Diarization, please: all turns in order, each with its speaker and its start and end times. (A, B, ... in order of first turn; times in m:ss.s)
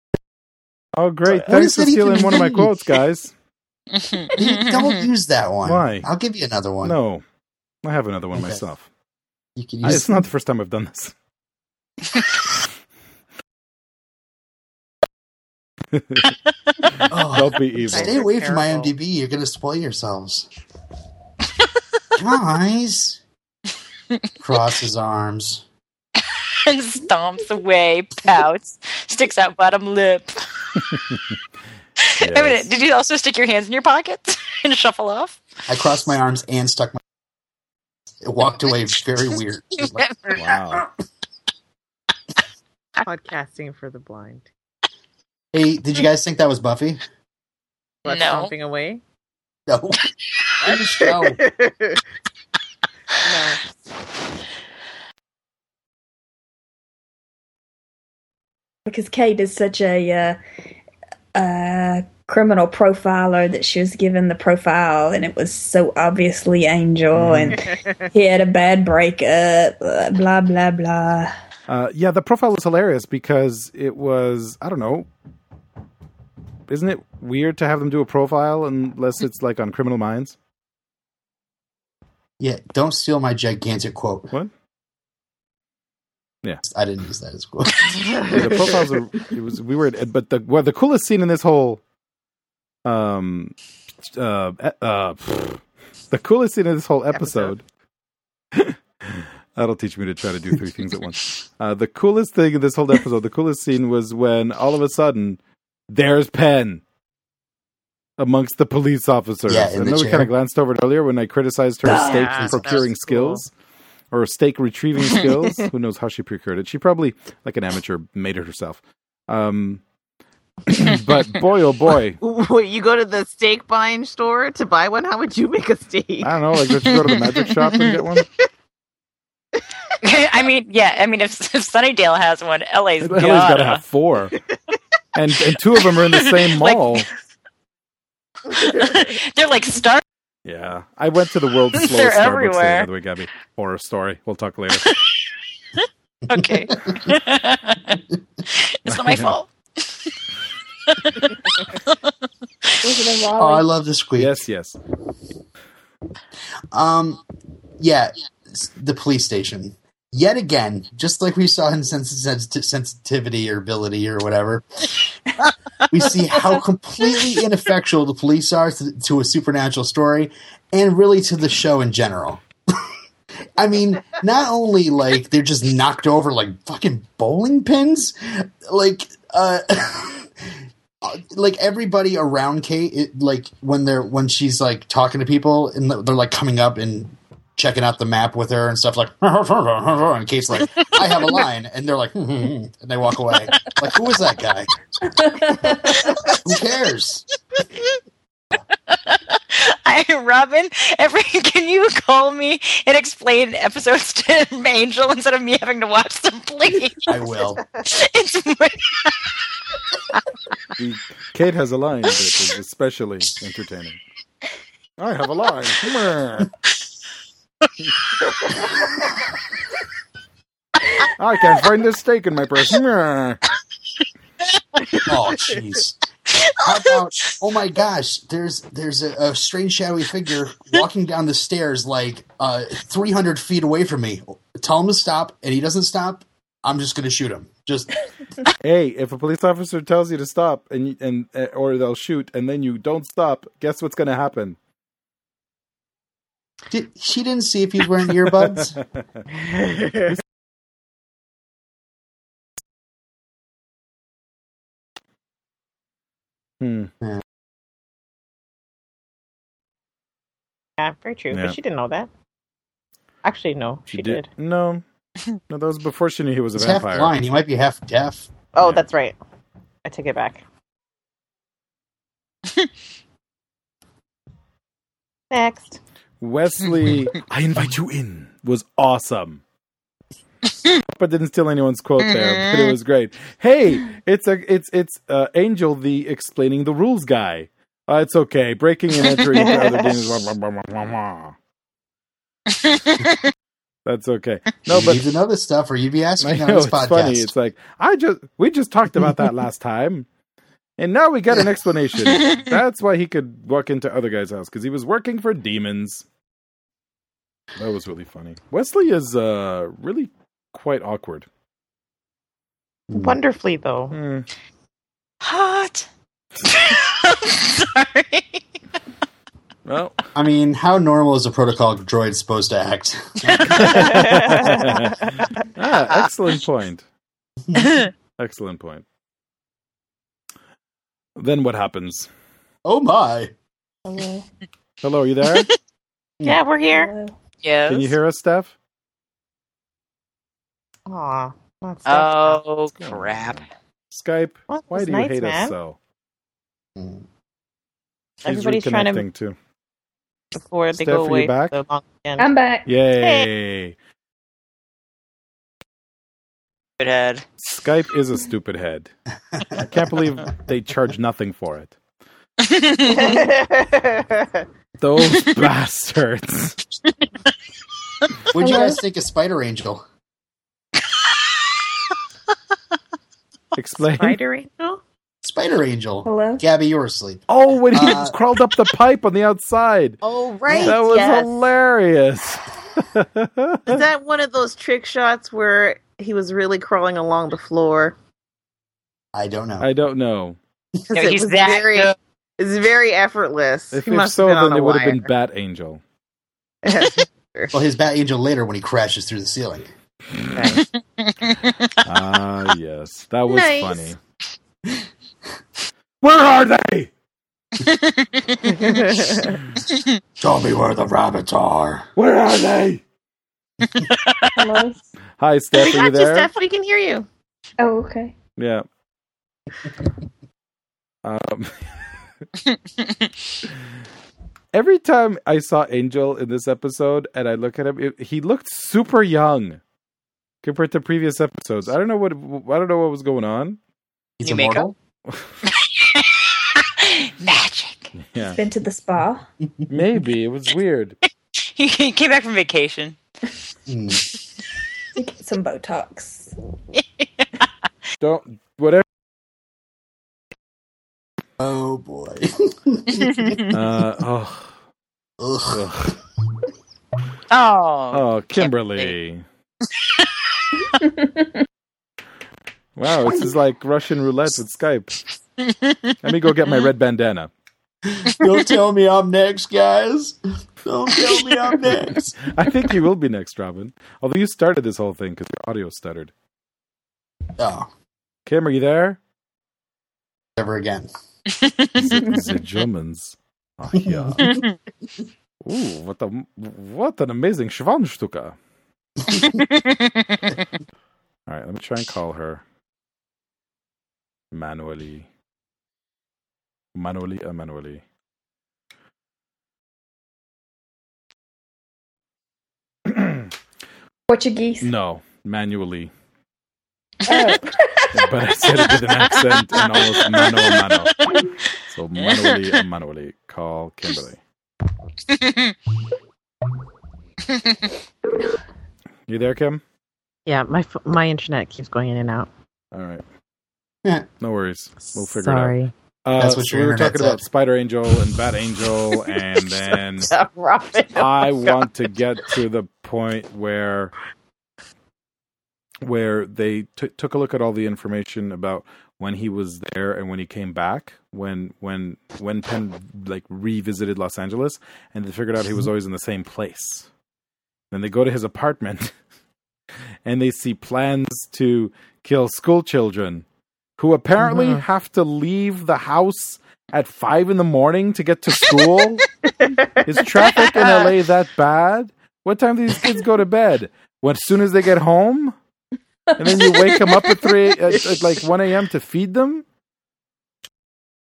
0:00.9-0:03.3 A
0:01.3-0:02.9 B
0:03.9-0:05.1 C
0:04.4-0:07.0 B
0:05.6-0:06.1 A
0:06.8-0:07.2 A
0:07.8-0:08.9 A
0:08.3-0:08.6 B
0:09.6-0:10.3 B
0:09.8-0:11.1 A
0:15.9-0:16.3 A
0:17.1-0:20.5 B
0:17.3-0:18.2 A
0:17.7-0:18.9 D
0:22.2-0:23.2 B
0:24.4-0:25.6 B
0:26.6-0:30.4 C
0:30.9-0:31.4 A
0:32.0-0:35.4 C
0:32.2-0:32.7 A
0:35.7-0:37.0 B
0:38.2-0:40.1 B
0:40.0-0:40.5 C
0:40.3-0:40.9 A
0:43.0-0:44.5 D
0:45.5-0:47.0 B
0:48.0-0:49.0 D
0:48.1-0:48.5 C
0:49.7-0:50.0 B
0:50.6-0:51.4 B
0:50.6-0:52.0 D
0:53.2-0:53.6 D
0:58.9-1:00.4 E
1:01.4-1:11.3 E
1:07.1-1:07.6 A
1:07.6-1:07.9 D
1:11.7-1:15.1 A
1:16.7-1:20.4 A
1:22.4-1:24.3 B
1:26.6-1:28.0 B
1:28.0-1:28.9 D
1:28.3-1:31.8 A
1:32.8-1:33.5 A
1:34.1-1:37.6 A
1:37.1-1:37.5 D
1:38.5-1:45.4 A
1:45.9-1:46.8 A
1:48.2-1:53.5 A
1:49.5-1:50.3 B
1:51.9-1:53.4 D
1:51.9-1:52.2 E
1:52.2-1:52.9 B
1:54.1-1:59.8 A
1:55.1-1:55.6 D
2:00.7-2:02.2 A
2:02.2-2:07.4 D
2:06.2-2:08.3 A
2:10.0-2:13.8 C
2:13.0-2:14.4 A
2:15.2-2:17.1 A
2:16.1-2:17.0 C
2:18.5-2:19.0 D
2:18.6-2:20.0 C
2:20.4-2:24.9 A
2:21.7-2:22.9 C
2:26.3-2:28.0 C
2:26.3-2:27.0 B
2:28.5-2:30.1 C
2:28.9-2:29.4 A
2:30.9-2:32.0 C
2:32.8-2:33.7 E
2:33.4-2:34.4 B
2:34.2-2:34.8 A
2:36.7-2:37.2 B
2:37.8-2:44.6 B
2:45.9-2:52.4 B
2:53.6-3:00.3 B
3:01.0-3:14.7 B
3:10.8-3:11.2 C
3:13.3-3:13.8 C
3:15.2-3:16.0 E
3:15.7-3:17.2 B
3:15.9-3:16.4 C
3:18.7-3:27.3 C
3:27.1-3:27.6 B
3:27.9-3:29.2 C
3:30.8-3:34.0 A
3:35.0-3:36.5 A
3:41.2-3:43.4 A
3:45.1-3:46.0 B
3:46.4-3:47.3 C
3:46.6-3:57.9 B
3:58.6-4:04.6 A
4:06.7-4:08.8 B
4:08.3-4:09.2 A
4:09.3-4:10.1 D
4:16.6-4:16.9 A
4:20.8-4:22.1 D
4:21.3-4:21.6 A
4:23.2-4:24.3 D
4:23.9-4:24.8 A
4:25.5-4:27.2 A
4:26.6-4:28.3 B
4:28.6-4:29.2 D
4:29.9-4:30.4 D
4:35.3-4:35.8 D
4:36.2-4:39.4 A
4:40.8-4:51.4 A
4:42.0-4:42.8 C
4:49.3-4:50.1 D
4:52.5-4:53.2 C
4:53.9-4:55.0 A
4:54.7-4:57.3 B
4:56.2-5:00.1 A
5:00.8-5:06.0 A
5:07.6-5:11.3 A
5:12.9-5:13.2 B
5:12.9-5:14.0 D
5:13.9-5:14.3 A
5:15.2-5:15.9 C
5:16.4-5:18.4 C
5:19.7-5:20.0 A
5:20.2-5:23.7 B
5:23.3-5:23.8 C
5:23.6-5:26.8 A
5:23.7-5:24.7 D
5:27.6-5:27.9 C
5:28.2-5:28.8 A
5:31.2-5:32.1 A
5:32.6-5:33.3 B
5:33.8-5:34.3 E
5:34.8-5:35.5 A
5:36.2-5:36.9 D
5:36.7-5:37.1 E
5:37.4-5:38.0 C
5:37.7-5:38.5 A
5:40.9-5:42.4 D
5:41.9-5:43.4 C
5:42.8-5:45.8 A
5:44.5-5:45.6 D
5:48.2-5:49.0 D
5:48.2-5:49.4 A
5:50.3-5:52.3 D
5:50.7-5:51.6 A
5:52.2-5:52.7 E
5:52.7-5:53.8 A
5:53.0-5:53.3 D
5:56.8-5:57.2 C
5:57.4-5:58.9 A
5:59.4-5:59.7 B
5:59.5-6:01.8 A
6:02.4-6:03.2 C
6:02.8-6:04.5 D
6:04.8-6:06.6 A
6:08.3-6:09.8 B
6:08.4-6:08.8 E
6:13.6-6:14.2 A
6:13.9-6:14.8 D
6:15.2-6:18.2 B
6:16.0-6:16.4 E
6:17.3-6:20.0 A
6:20.0-6:21.4 D
6:20.6-6:23.8 A
6:23.7-6:28.0 D
6:29.1-6:29.7 B
6:29.6-6:30.4 A
6:30.9-6:35.1 D
6:30.9-6:32.0 C
6:33.7-6:35.8 A
6:36.6-6:37.6 D
6:37.5-6:39.7 B
6:40.2-6:40.6 A
6:40.3-6:40.6 D
6:40.6-6:41.8 C
6:41.8-6:44.0 A
6:43.3-6:43.9 D
6:46.0-6:46.9 A
6:47.6-6:48.6 C
6:48.4-6:49.4 D
6:50.2-6:51.9 B
6:52.0-6:52.8 A
6:53.7-6:54.4 C
6:54.3-6:54.9 E
6:55.2-6:56.3 A
6:55.5-6:57.1 D
6:57.6-6:58.1 E
6:58.4-6:58.6 A
7:01.0-7:01.7 A
7:02.5-7:03.0 C
7:04.5-7:09.6 A
7:10.4-7:13.6 A
7:14.2-7:14.8 B
7:14.2-7:14.7 C
7:15.5-7:17.9 C
7:18.0-7:18.4 A
7:18.2-7:19.2 E
7:19.7-7:21.0 A
7:21.4-7:23.0 C
7:23.7-7:24.0 B
7:25.0-7:26.3 E
7:26.7-7:27.4 C
7:28.0-7:28.8 A
7:31.4-7:33.4 B
7:33.1-7:33.5 C
7:33.5-7:34.5 A
7:35.2-7:35.6 B
7:35.5-7:36.0 A
7:37.3-7:38.9 C
7:37.9-7:39.2 A
7:39.8-7:40.1 C
7:40.8-7:41.3 E
7:42.8-7:44.9 A
7:45.4-7:46.7 C
7:46.0-7:47.3 A
7:47.9-7:52.2 B
7:52.2-7:56.1 A
7:57.4-7:57.7 B
7:58.3-7:59.0 A
8:00.4-8:00.9 B
8:01.3-8:01.7 C
8:01.8-8:04.4 A
8:03.8-8:04.4 B
8:04.2-8:04.5 C
8:05.4-8:08.4 A
8:09.1-8:10.4 C
8:11.3-8:12.4 A
8:14.3-8:15.1 A
8:16.8-8:17.8 A
8:22.9-8:23.3 A
8:24.1-8:24.7 E
8:24.6-8:25.9 A
8:27.1-8:28.1 E
8:27.9-8:31.0 A
8:29.5-8:31.1 C
8:31.7-8:34.2 A
8:32.1-8:32.4 C
8:35.1-8:35.6 C
8:37.3-8:37.6 C
8:39.1-8:39.6 A
8:40.3-8:42.3 D
8:42.7-8:43.0 A
8:44.2-8:50.1 A
8:44.8-8:45.7 D
8:46.2-8:47.2 B
8:50.0-8:51.6 D
8:51.0-8:53.9 A
8:55.8-9:06.9 A
9:07.7-9:08.9 A
9:10.0-9:13.2 A
9:13.8-9:19.1 A
9:19.4-9:19.8 D
9:19.8-9:25.4 A
9:20.6-9:20.9 C
9:26.2-9:29.4 A